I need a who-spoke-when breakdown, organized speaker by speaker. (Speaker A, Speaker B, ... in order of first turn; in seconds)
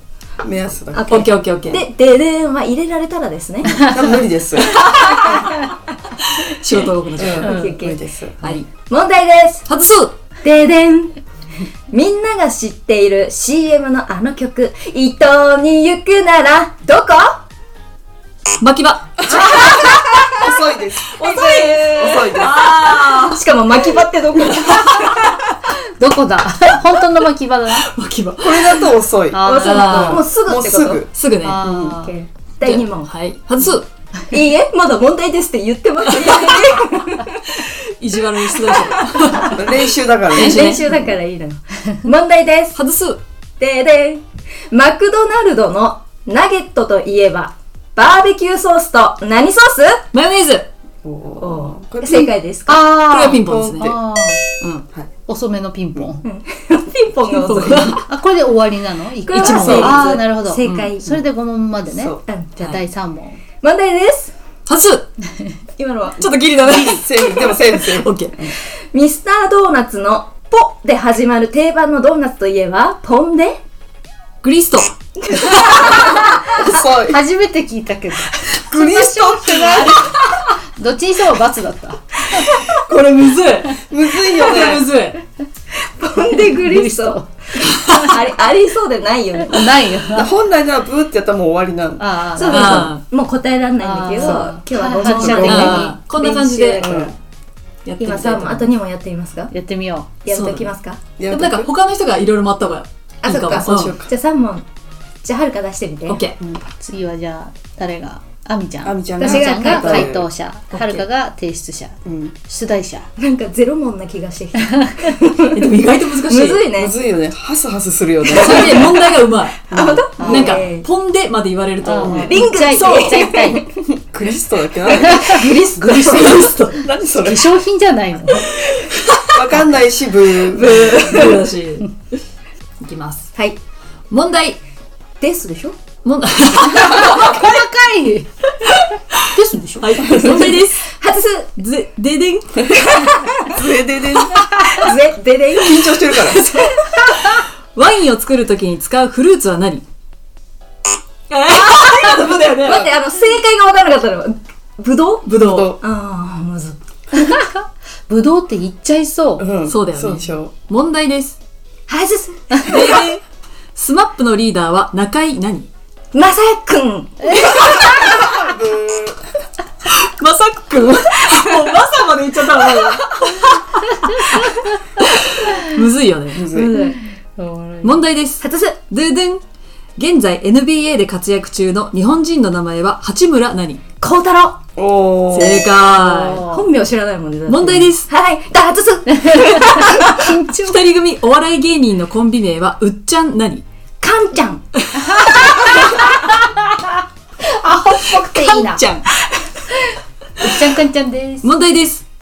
Speaker A: 0.4-1.8, 3.8-4.8, 7.2-8.6, 19.2-21.1, 21.8-22.9, 28.4-29.5, 30.4-31.1, 31.6-32.0, 39.4-40.7, 51.0-52.3, 52.8-54.0, 59.5-60.0, 61.9-62.2, 66.7-68.5, 75.8-77.2, 78.5-80.0, 82.9-84.8, 90.1-92.0, 95.0-95.7, 96.8-97.1, 101.2-101.7, 103.5-104.1, 108.8-110.3, 112.0-112.3, 116.7-119.0, 119.7-120.0, 122.0-123.2, 123.8-125.5, 126.7-127.6, 129.3-130.9, 140.1-140.4, 143.4-144.8, 145.5-146.5, 155.4-155.8, 159.4-160.5, 167.8-169.2, 176.3-176.8, 184.8-185.7
Speaker B: 0.9-3.9, 4.6-5.6, 7.4-8.0, 8.9-9.7, 10.4-11.1, 11.9-17.4, 19.3-20.4, 21.2-22.5, 23.1-25.5, 29.4-31.1, 32.0-33.1, 34.3-37.4, 38.7-39.5, 40.3-42.8, 43.6-50.0, 51.4-52.9, 56.2-58.0, 59.2-61.2, 62.2-62.5, 63.6-64.3, 65.8-66.3, 68.4-73.6, 75.2-76.8, 80.0-80.4, 82.3-82.7, 85.7-89.7, 92.3-97.1, 98.0-99.5, 100.2-101.0, 103.2-104.6, 105.2-106.2, 109.2-110.1, 113.2-117.0, 118.3-119.0, 119.6-120.8, 122.1-123.6, 125.0-126.5, 130.4-131.5, 135.2-135.8, 140.3-141.6, 142.5-143.5, 144.7-147.0, 151.7-156.8, 161.9-163.1, 166.1-168.3, 176.4-177.0, 178.4-178.8, 184.0-184.6, 186.5-190.3, 194.0-194.6, 199.2-199.6
Speaker C: 1.1-1.8, 6.2-7.6, 8.4-8.7, 9.7-10.1, 18.6-20.1, 21.1-23.4, 27.7-28.9, 29.6-30.3, 31.1-31.6, 32.6-33.9, 36.1-36.6, 37.5-40.8, 42.7-43.2, 50.1-50.7, 52.7-53.9, 57.2-58.0, 59.3-60.1, 60.6-60.9, 64.7-65.1, 66.2-67.3, 67.8-68.3, 74.4-74.9, 82.9-83.8, 84.4-85.2, 92.4-93.0, 94.2-94.4, 95.4-96.8, 97.8-98.7, 100.3-100.7, 101.3-103.9, 106.1-106.4, 110.7-111.1, 115.5-116.6, 118.3-123.1, 126.1-126.8, 129.1-129.3, 130.8-131.9, 132.8-133.3, 134.1-134.6, 136.0-137.4, 138.7-139.2, 139.8-140.9, 141.6-142.8, 147.2-149.8, 151.3-152.9, 155.2-155.8, 159.6-161.4, 162.5-163.2, 163.7-165.7, 169.8-176.5, 177.8-179.4, 180.0-183.8, 185.3-186.4, 187.5-188.1, 190.6-193.6, 194.8-195.3, 198.3-199.1, 201.4-202.0
Speaker D: 25.7-27.9, 29.3-30.2, 31.4-32.1, 52.8-54.4, 55.2-56.2, 57.8-63.4, 75.6-76.1, 77.0-80.0, 80.8-82.3, 86.3-88.3, 89.4-90.3, 92.0-92.9, 93.8-96.0, 99.5-100.1, 106.7-113.1, 120.2-120.6, 121.8-123.7, 124.9-128.6, 136.7-138.3, 139.2-140.2, 157.2-159.5, 177.4-178.0, 185.9-186.7, 189.2-190.8, 195.0-198.8, 200.4-201.5